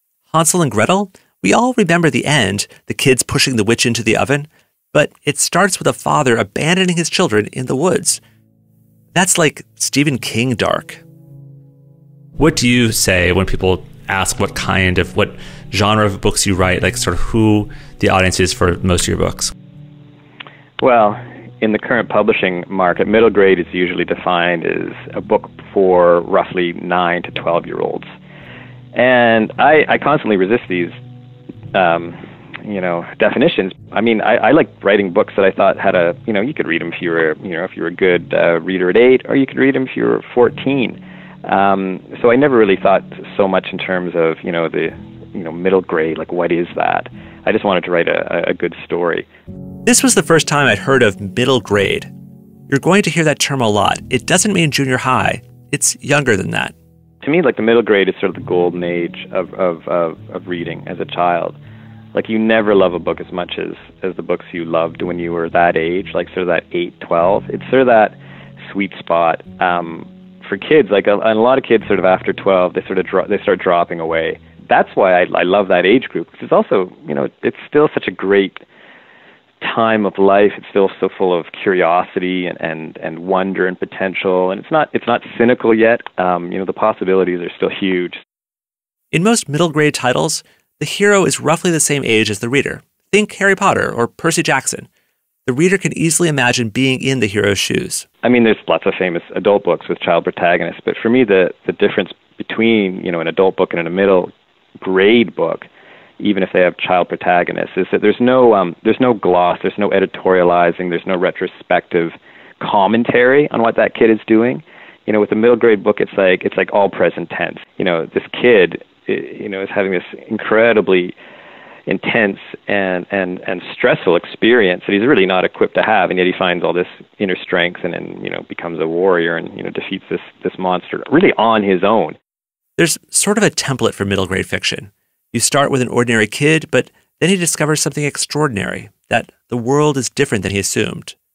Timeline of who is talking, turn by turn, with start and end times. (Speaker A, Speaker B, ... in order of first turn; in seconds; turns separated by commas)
Speaker A: 0.3-8.2, Speaker A: 9.1-11.0, Speaker A: 12.4-19.5, Speaker B: 20.8-28.1, Speaker B: 28.9-30.9, Speaker B: 31.7-49.3, Speaker A: 49.9-52.1, Speaker A: 52.7-56.7, Speaker B: 57.2-61.6, Speaker B: 62.1-68.2, Speaker B: 68.7-78.6, Speaker B: 79.6-88.2, Speaker A: 89.1-94.9, Speaker A: 95.5-98.1, Speaker B: 98.2-105.7, Speaker B: 106.2-121.2, Speaker B: 121.9-132.2, Speaker A: 132.8-141.2